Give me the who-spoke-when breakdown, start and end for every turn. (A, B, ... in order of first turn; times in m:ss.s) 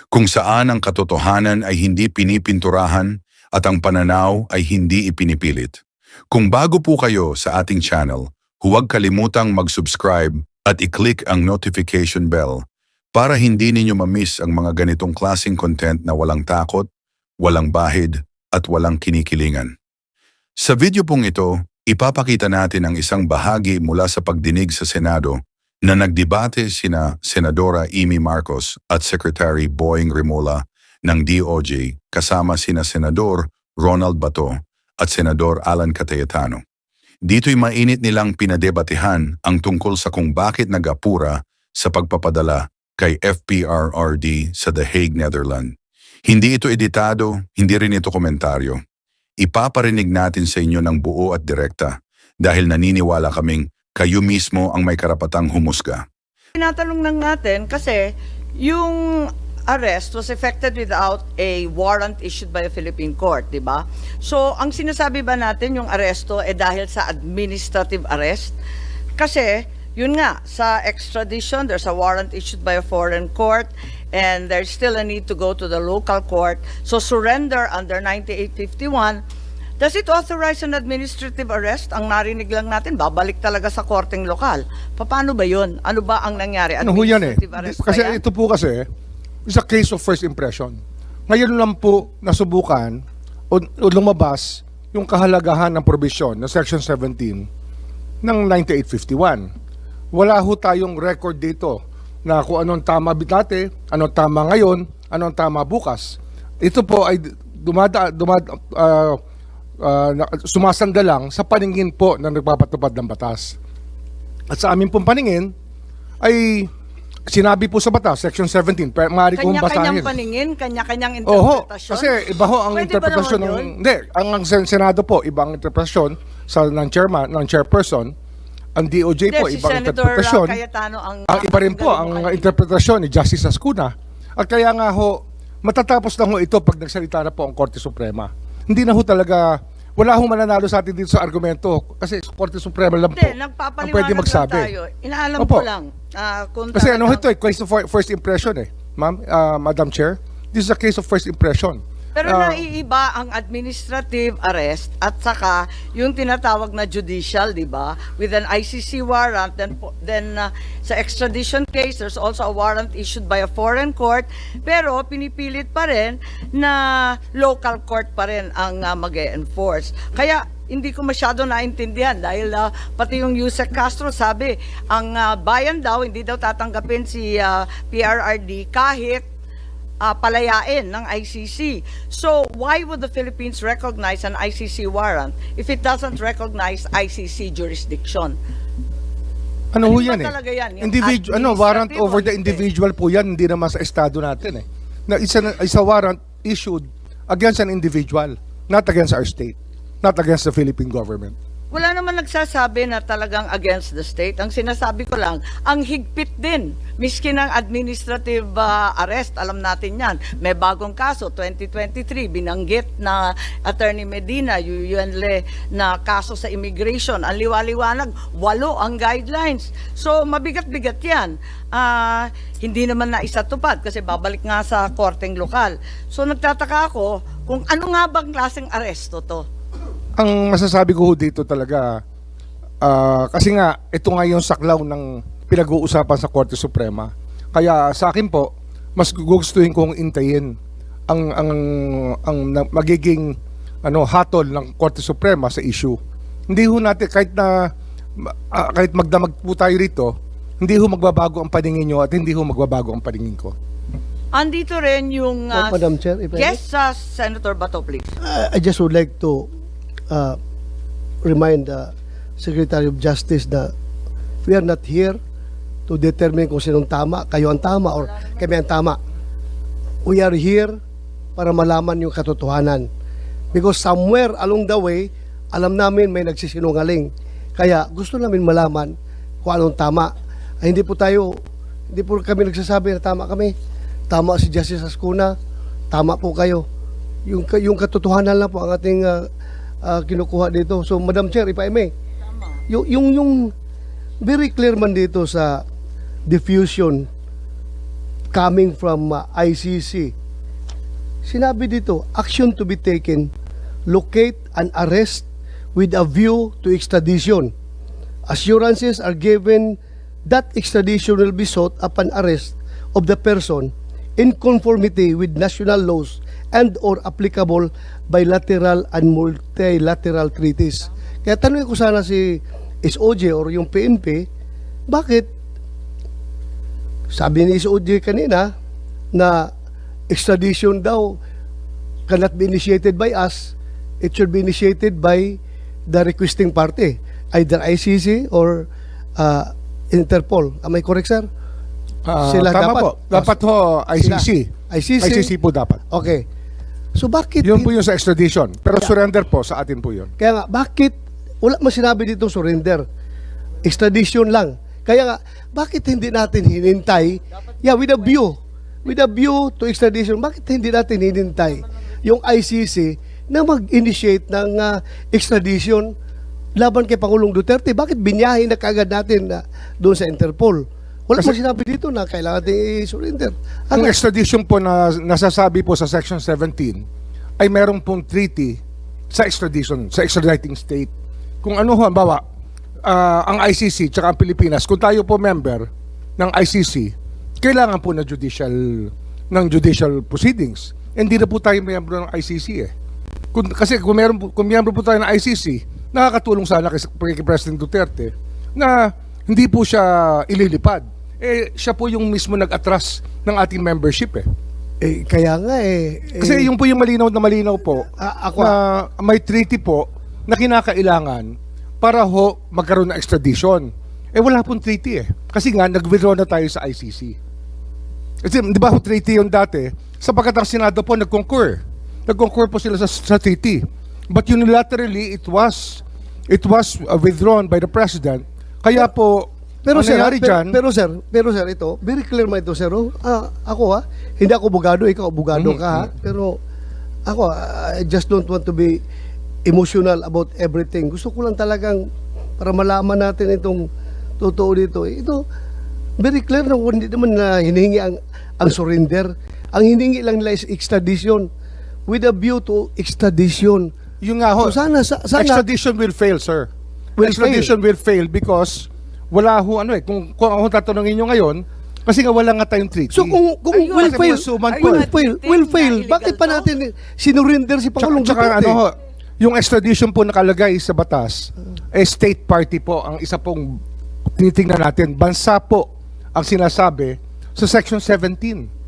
0:00.1-0:05.8 A
0:06.3-0:12.6 A
0:13.1-0:16.9 A
0:17.4-0:19.7 A
0:20.6-0:36.6 A
0:37.3-0:45.7 A
0:46.3-0:48.8 A
0:49.4-0:56.0 A
0:56.6-1:08.5 B
1:09.2-1:19.2 B
1:19.8-1:28.2 B
1:26.8-1:28.8 C
1:29.5-1:37.5 C
1:38.2-1:39.5 C
1:40.1-1:49.2 C
1:49.8-1:53.6 C
1:54.5-1:55.5 C
1:56.2-1:56.7 C
1:57.3-2:00.1 C
1:59.4-2:03.7 B
2:01.2-2:08.1 C
2:08.8-2:10.6 C
2:09.3-2:12.6 B
2:11.3-2:24.7 C
2:23.1-2:27.3 B
2:25.4-2:25.7 C
2:26.7-2:32.6 C
2:32.2-2:59.2 B
3:00.0-3:08.4 B
3:09.7-3:21.3 C
3:09.8-3:12.6 B
3:21.7-3:49.4 B
3:50.2-3:52.0 C
3:52.8-4:00.5 C
4:01.1-4:13.5 C
4:14.3-4:18.1 B
4:15.5-4:16.6 D
4:18.2-4:19.5 D
4:20.1-4:20.4 D
4:21.2-4:23.7 D
4:24.4-4:25.2 D
4:25.9-4:29.0 D
4:30.0-4:30.8 D
4:31.4-4:32.9 D
4:33.5-4:41.4 D
4:41.9-4:43.5 D
4:44.1-4:45.3 D
4:45.9-4:46.6 D
4:47.2-4:49.3 D
4:49.8-4:51.9 D
4:52.7-4:53.5 D
4:54.2-4:55.6 D
4:56.2-4:57.1 D
4:58.3-5:00.1 D
5:01.2-5:03.3 D
5:03.9-5:07.5 D
5:08.3-5:24.3 D
5:24.9-5:25.3 D
5:27.1-5:28.5 D
5:29.1-5:29.5 D
5:30.1-5:31.2 D
5:32.1-5:35.4 D
5:35.9-5:38.6 D
5:39.2-5:41.3 D
5:42.0-5:45.8 C
5:42.2-5:43.4 D
5:44.0-5:45.4 D
5:45.9-5:46.2 D
5:46.9-5:47.7 D
5:47.4-5:50.1 C
5:50.2-5:52.8 D
5:53.6-6:05.9 D
6:06.6-6:14.0 D
6:13.7-6:16.8 C
6:17.4-6:20.9 C
6:21.4-6:22.2 C
6:22.8-6:32.7 C
6:33.3-6:44.2 C
6:44.8-6:46.5 D
6:46.2-6:57.2 C
6:48.0-6:48.6 D
6:58.2-7:10.6 C
7:09.6-7:16.4 D
7:15.3-7:15.9 C
7:17.0-7:18.8 D
7:19.4-7:21.8 D
7:22.4-7:23.7 D
7:24.2-7:25.2 D
7:26.0-7:31.3 D
7:31.9-7:33.7 D
7:34.0-7:34.6 C
7:34.4-7:35.4 D
7:35.1-7:36.5 C
7:37.0-7:37.5 D
7:37.0-7:44.9 C
7:42.9-7:48.6 D
7:43.5-7:46.5 B
7:47.8-7:53.6 C
7:54.2-7:58.5 C